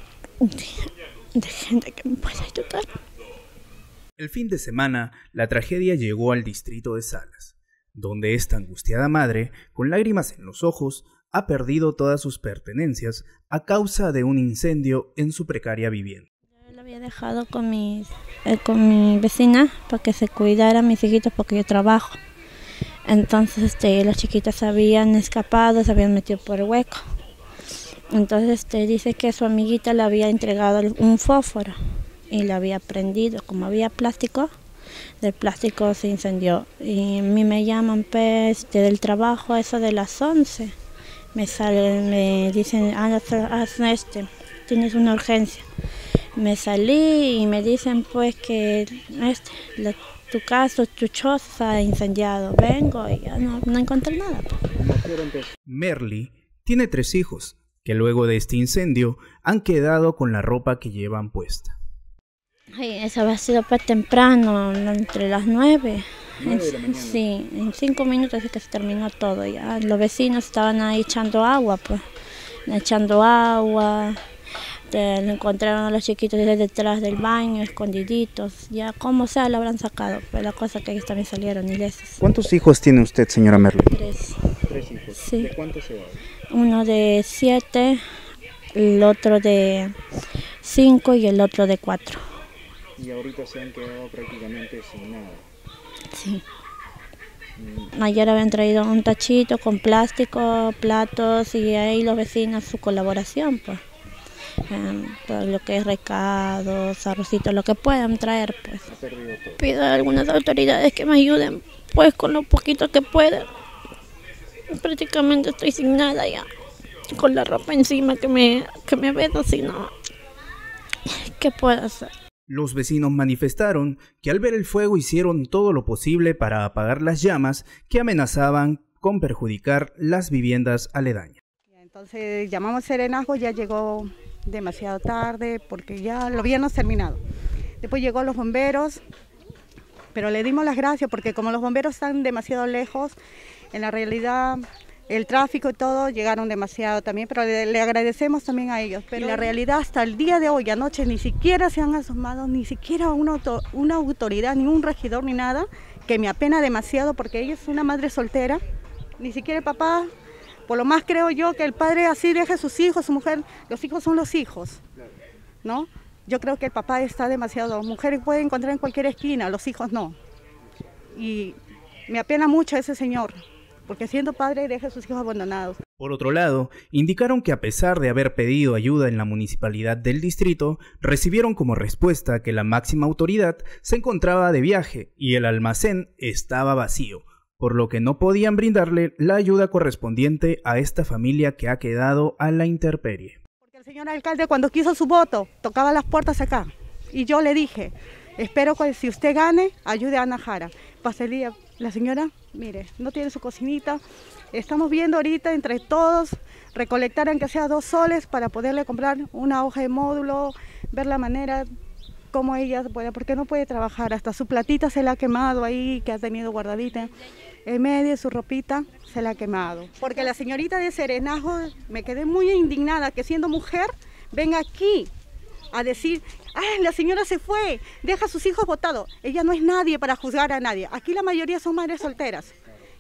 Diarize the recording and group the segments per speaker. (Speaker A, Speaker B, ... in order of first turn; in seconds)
Speaker A: 0.4-2.9, 16.7-22.2, 23.1-27.0, 28.1-31.8, 32.3-34.5, 35.2-40.7, 41.3-45.7, 46.4-54.6, 62.7-72.0, 72.7-74.2, 74.9-82.2, 83.9-84.4, 85.2-85.5, 86.5-88.0, 88.7-89.9, 90.6-92.2, 96.1-96.4, 98.0-103.8, 104.7-108.9, 109.6-113.5, 114.7-116.5, 117.1-119.9, 121.1-122.1
Speaker B: 4.2-16.2, 55.6-61.8, 82.2-84.0, 122.5-131.4, 176.0-193.4
Speaker C: 54.9-55.5, 66.4-67.2, 84.7-86.2, 93.0-95.4, 97.6-97.9, 108.9-109.6
Speaker D: 131.8-137.2, 137.8-139.0, 140.1-143.2, 143.7-158.6, 159.2-160.1, 160.7-164.8, 165.6-170.2, 171.1-171.6, 172.1-173.4, 173.9-175.8, 193.6-204.0, 204.5-211.7, 212.3-217.1, 217.7-225.1, 225.7-232.5